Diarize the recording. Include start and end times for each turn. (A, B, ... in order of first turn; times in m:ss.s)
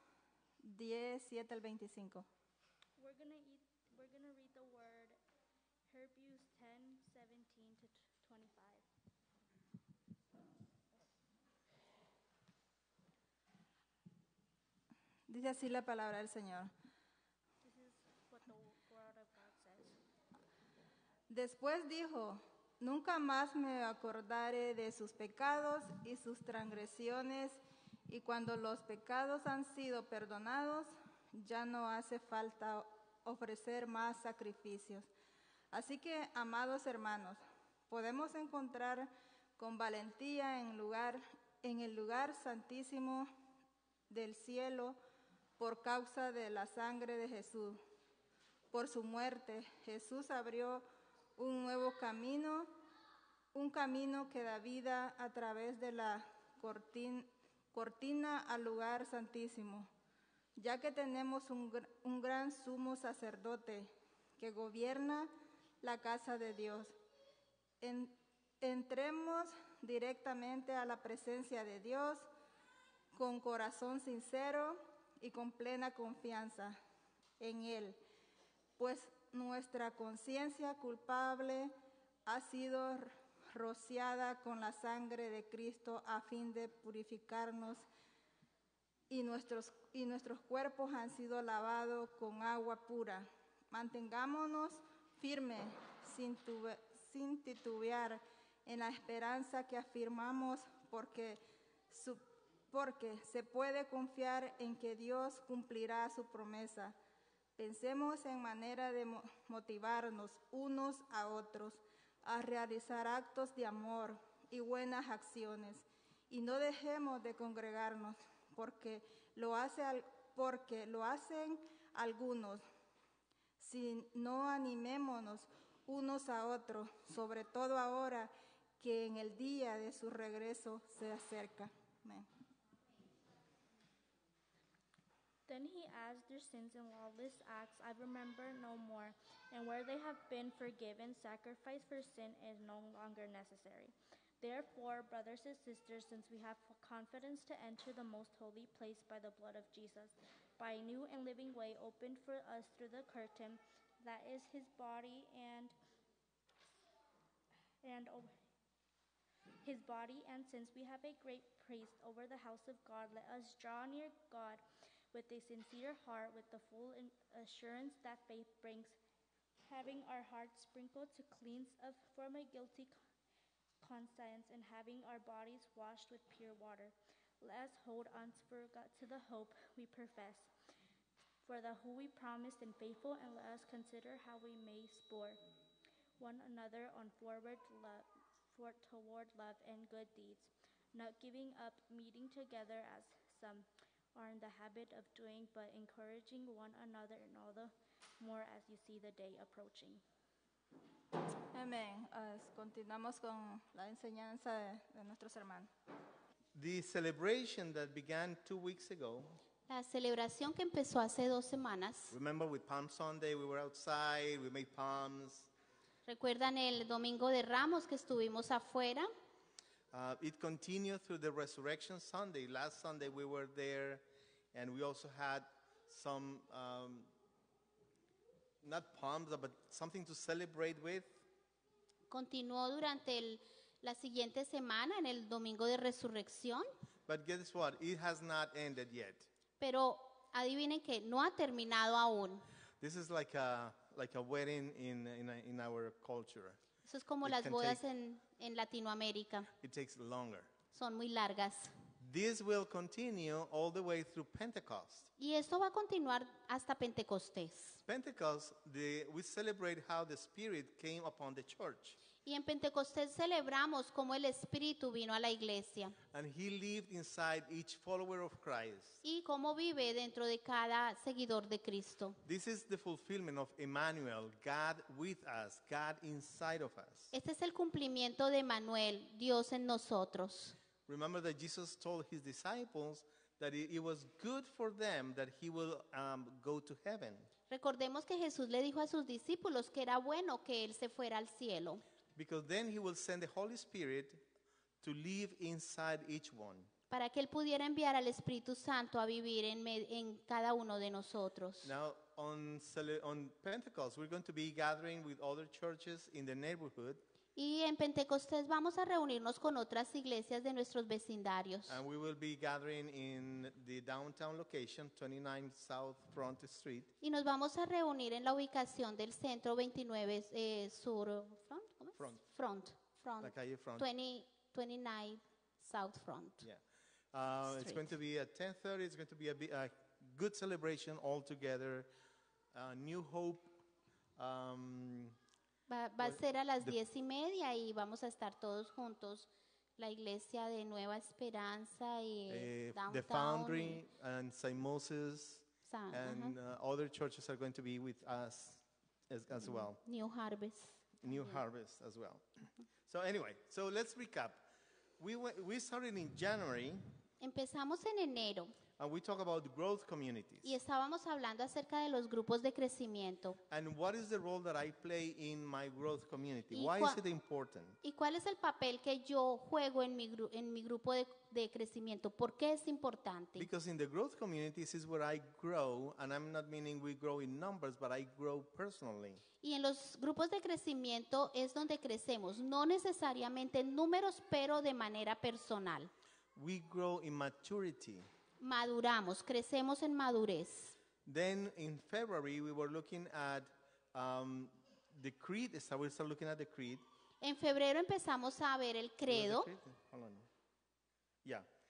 0:00.6-0:02.3 A
0:03.0-0:05.2 B
0:05.9-0:08.8 B
0:15.3-0:16.7 A
0:17.6-0:20.0 B
0:21.3-0:35.1 A
0:35.7-0:43.3 A
0:44.1-0:45.0 A
0:45.6-0:47.8 A
0:48.7-0:50.8 A
0:51.4-0:52.7 A
0:53.5-0:59.9 A
1:00.6-1:07.0 A
1:07.8-1:12.3 A
1:13.1-1:16.8 A
1:17.4-1:18.0 A
1:18.8-1:21.7 A
1:22.3-1:27.9 A
1:29.1-1:47.0 A
1:47.6-2:02.6 A
2:03.6-2:12.3 A
2:15.5-2:35.7 B
2:37.8-2:38.3 B
2:39.6-2:49.0 B
2:49.6-2:53.0 B
2:53.8-3:00.5 B
3:01.4-3:05.4 B
3:06.2-3:20.0 B
3:21.5-3:25.7 A
3:26.5-3:29.4 C
3:29.7-3:32.2 D
3:32.1-3:35.5 C
3:36.1-3:39.1 D
3:39.9-3:47.1 C
3:48.6-3:51.2 C
3:52.1-3:56.7 D
3:57.1-3:59.3 C
3:59.6-4:02.4 D
4:02.8-4:06.6 C
4:06.8-4:09.5 D
4:07.2-4:07.8 C
4:09.6-4:10.5 C
4:10.7-4:11.7 D
4:12.0-4:15.1 C
4:15.2-4:17.8 D
4:17.8-4:22.0 C
4:22.2-4:26.0 D
4:26.1-4:29.0 C
4:29.0-4:32.2 D
4:32.2-4:37.1 C
4:37.1-4:40.6 D
4:40.9-4:47.3 C
4:47.5-4:51.8 D
4:52.2-4:54.2 C
4:54.8-4:56.7 C
4:56.9-5:01.7 D
5:01.6-5:07.0 C
5:07.4-5:11.8 D
5:11.7-5:16.9 C
5:17.0-5:26.4 D
5:23.2-5:23.9 C
5:27.1-5:31.9 C
5:27.5-5:27.9 D
5:32.5-5:33.5 C
5:34.2-5:35.2 C
5:35.7-5:43.8 D
5:36.0-5:36.8 C
5:42.3-5:49.8 C
5:45.7-5:46.4 D
5:49.5-5:51.0 D
5:51.0-5:54.4 C
5:55.0-5:56.8 C
5:57.2-5:58.6 D
5:58.8-6:00.6 C
6:00.4-6:03.4 D
6:03.5-6:07.8 C
6:06.5-6:07.0 D
6:07.8-6:13.5 D
6:13.4-6:19.2 C
6:19.4-6:25.9 D
6:26.4-6:28.1 C
6:28.4-6:30.8 D
6:31.0-6:36.8 C
6:37.2-6:39.5 D
6:39.1-6:40.3 C